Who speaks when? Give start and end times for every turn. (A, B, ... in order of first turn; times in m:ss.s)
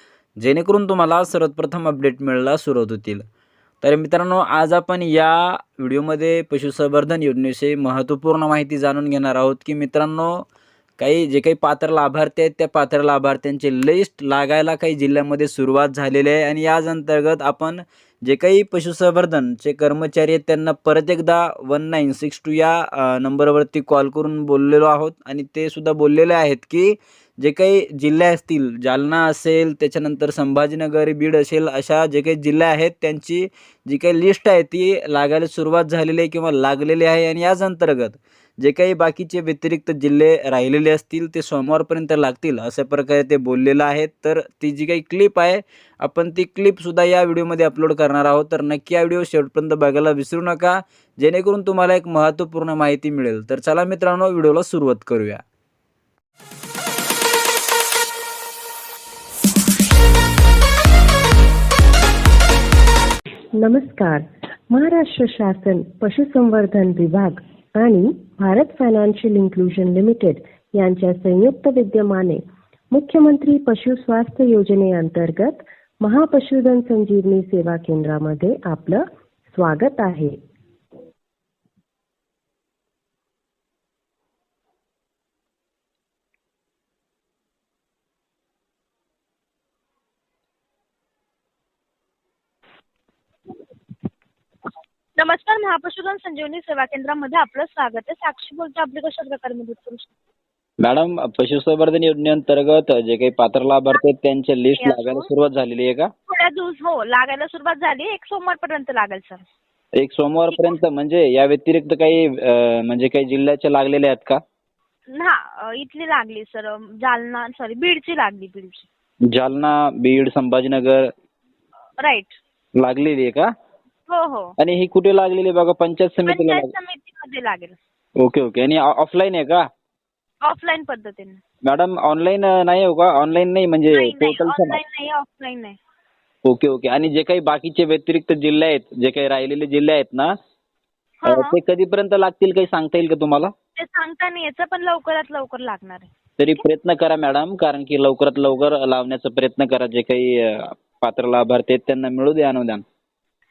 0:00.4-0:03.2 A
0:03.8-0:10.4 A
0:11.0-0:55.4 A
1:03.6-1:20.4 B
1:35.2-1:40.1 C
1:40.8-1:46.1 A
1:44.8-1:45.3 C
1:46.3-1:49.4 C
1:50.0-1:54.4 A
1:50.5-1:50.8 C
1:55.1-1:58.9 C
1:59.3-2:01.1 A
2:02.0-2:02.4 C
2:02.8-2:03.5 A
2:04.1-2:04.5 C
2:04.6-2:06.7 A
2:06.2-2:07.8 C
2:08.2-2:09.6 A
2:10.4-2:11.4 C
2:11.6-2:14.8 A
2:13.9-2:15.8 C
2:16.4-2:20.3 A
2:21.2-2:21.6 C
2:21.2-2:23.5 A
2:23.8-2:26.1 C
2:26.4-2:32.8 A